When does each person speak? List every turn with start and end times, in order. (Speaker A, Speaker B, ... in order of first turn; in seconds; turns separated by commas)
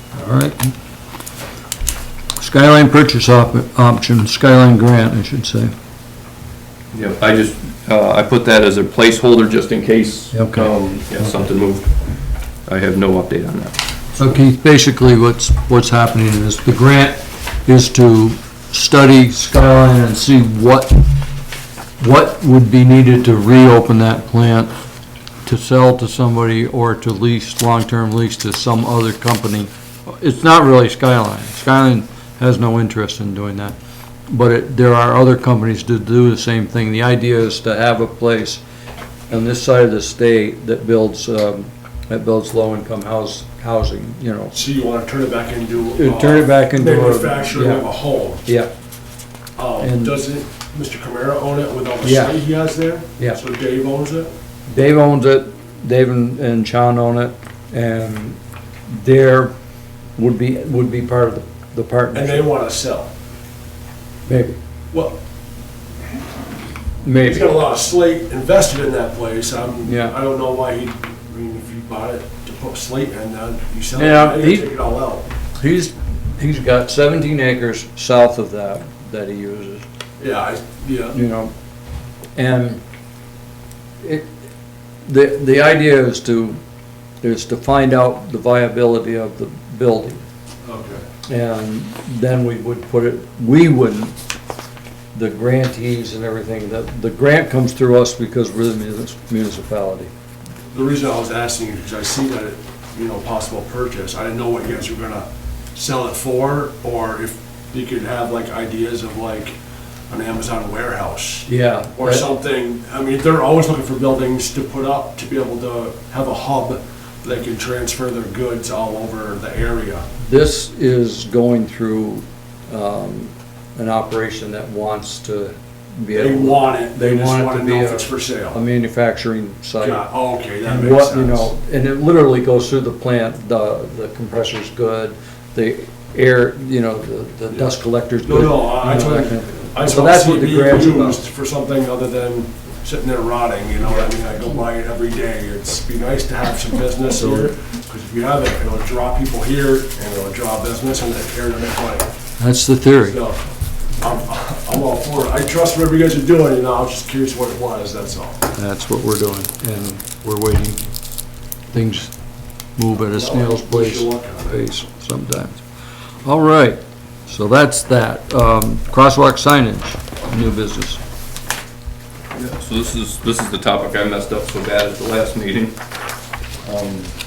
Speaker A: 0.1-0.7, Speaker A: 2.4-5.7, Speaker B: 6.9-11.9, Speaker A: 10.3-10.7, Speaker B: 12.7-13.8, Speaker A: 14.2-21.0, Speaker A: 22.0-24.7, Speaker A: 25.4-33.8, Speaker A: 34.3-38.6, Speaker A: 39.3-44.6, Speaker C: 44.5-48.5, Speaker A: 46.0-47.9, Speaker A: 48.5-48.7, Speaker C: 49.5-54.3, Speaker A: 49.8-50.2, Speaker A: 52.0-52.4, Speaker A: 54.7-58.4, Speaker A: 58.9-59.5, Speaker A: 60.2-62.5, Speaker C: 62.1-63.1, Speaker A: 64.3-64.6, Speaker C: 64.9-65.2, Speaker A: 67.0-67.7, Speaker C: 67.2-75.3, Speaker A: 69.8-70.2, Speaker A: 74.0-74.7, Speaker A: 75.6-79.8, Speaker C: 80.2-81.2, Speaker A: 81.1-81.5, Speaker A: 82.4-82.8, Speaker A: 84.0-84.3, Speaker A: 85.1-86.6, Speaker A: 87.2-90.2, Speaker C: 90.6-91.0, Speaker A: 91.3-94.2, Speaker A: 95.1-100.1, Speaker C: 100.7-109.6, Speaker C: 110.1-120.1, Speaker A: 111.5-112.3, Speaker A: 120.2-130.0, Speaker C: 126.1-128.6, Speaker C: 129.8-131.5, Speaker A: 130.6-141.2, Speaker C: 137.5-152.1, Speaker A: 147.1-147.5, Speaker A: 152.4-153.2, Speaker C: 153.0-153.4, Speaker C: 154.0-158.4, Speaker A: 158.6-160.9, Speaker A: 161.7-162.1, Speaker A: 162.8-165.6, Speaker C: 163.0-164.6, Speaker A: 166.2-171.0, Speaker B: 172.3-175.8, Speaker B: 176.6-177.1